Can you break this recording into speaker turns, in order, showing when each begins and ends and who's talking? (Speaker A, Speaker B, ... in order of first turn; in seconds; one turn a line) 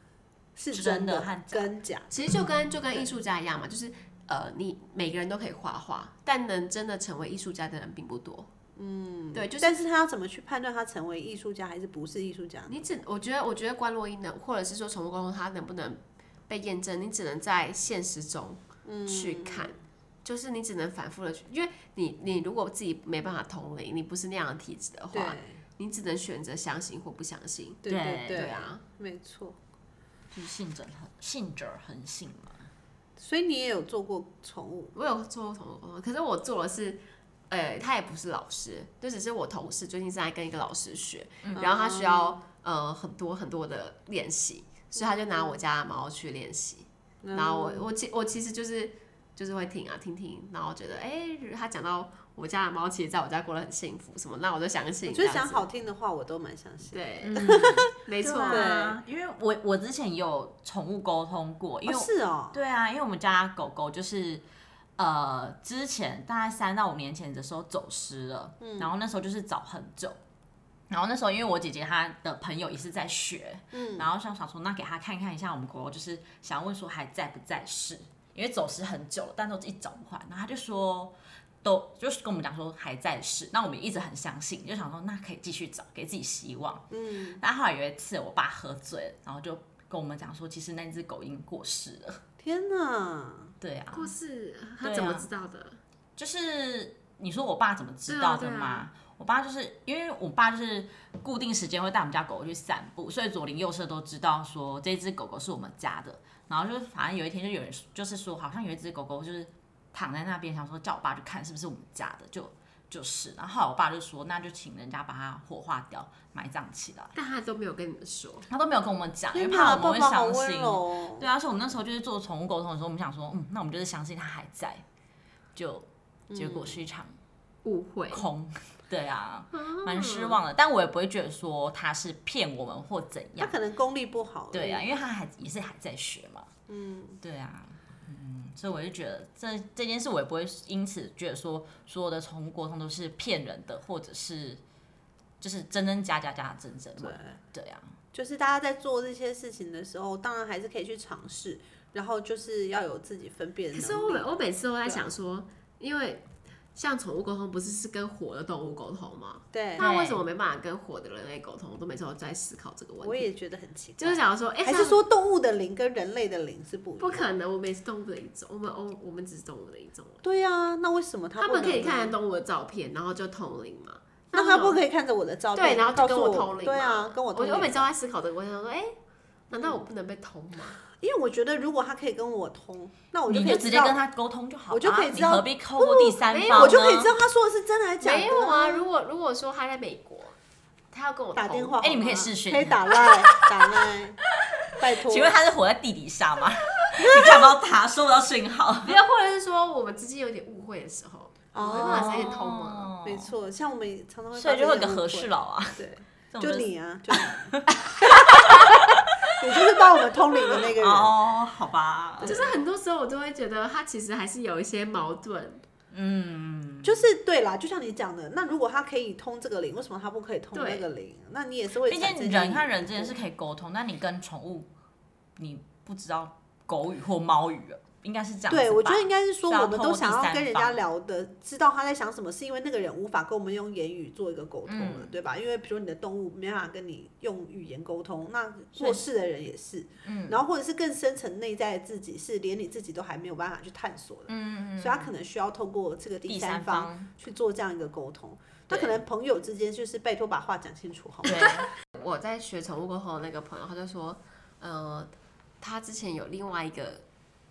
Speaker A: 0.6-2.1
Speaker B: 0.7-1.7
Speaker C: 2.1-8.5
Speaker A: 8.8-12.8
Speaker C: 9.3-9.7
Speaker C: 12.7-28.8
Speaker A: 18.8-19.7
Speaker A: 25.1-25.6
Speaker A: 27.8-29.6
Speaker B: 27.9-28.5
Speaker B: 30.3-32.7
Speaker A: 33.2-34.9
Speaker C: 34.9-55.7
Speaker A: 41.5-42.4
Speaker A: 44.9-45.6
Speaker A: 47.2-47.9
Speaker A: 55.0-57.9
Speaker C: 56.9-57.4
Speaker B: 57.2-64.4
Speaker C: 58.0-58.7
Speaker A: 58.5-59.0
Speaker A: 61.9-62.6
Speaker B: 65.0-70.2
Speaker A: 68.6-68.9
Speaker B: 70.9-92.2
Speaker A: 73.7-74.1
Speaker A: 86.9-87.4
Speaker A: 92.4-93.5
Speaker B: 93.6-94.1
Speaker C: 93.9-95.8
Speaker B: 94.8-95.3
Speaker B: 96.2-117.1
Speaker C: 98.1-98.9
Speaker C: 117.1-118.5
Speaker B: 118.5-124.8
Speaker A: 119.3-121.3
Speaker B: 125.5-127.2
Speaker A: 126.3-126.8
Speaker C: 127.6-128.3
Speaker B: 128.1-133.6
Speaker C: 129.5-130.4
Speaker A: 133.4-134.9
Speaker B: 134.5-136.5
Speaker A: 136.7-137.2
Speaker B: 137.2-144.6
Speaker B: 145.4-147.9
Speaker A: 147.0-147.4
Speaker A: 148.1-154.3
Speaker C: 153.7-163.3
Speaker A: 154.8-155.1
Speaker A: 159.5-159.8
Speaker B: 159.8-160.2
Speaker A: 163.0-167.3
Speaker C: 164.0-165.0
Speaker C: 167.0-170.2
Speaker A: 170.2-172.2
Speaker C: 171.4-174.8
Speaker A: 174.3-177.9
Speaker C: 175.5-178.9
Speaker C: 179.5-180.8
Speaker A: 181.0-184.0
Speaker B: 183.3-187.1
Speaker A: 184.7-188.9
Speaker C: 186.3-186.8
Speaker C: 188.0-190.4
Speaker C: 190.9-191.8
Speaker A: 191.3-194.2
Speaker B: 191.8-193.9
Speaker A: 194.8-195.3
Speaker B: 194.8-198.9
Speaker A: 197.0-197.5
Speaker C: 198.8-202.9
Speaker A: 201.5-202.3
Speaker B: 201.6-203.3
Speaker A: 203.0-208.4
Speaker B: 204.3-205.8
Speaker B: 206.3-209.8
Speaker A: 209.4-211.1
Speaker B: 210.5-212.5
Speaker A: 212.2-212.5
Speaker C: 212.2-215.6
Speaker B: 215.9-217.0
Speaker A: 216.8-223.2
Speaker C: 220.5-220.9
Speaker B: 221.9-224.7
Speaker B: 225.4-230.8
Speaker A: 228.5-251.4
Speaker B: 234.7-235.1
Speaker B: 240.0-240.4
Speaker B: 244.3-245.1
Speaker B: 246.3-247.1
Speaker B: 248.7-249.0
Speaker B: 251.2-251.7
Speaker C: 251.3-257.0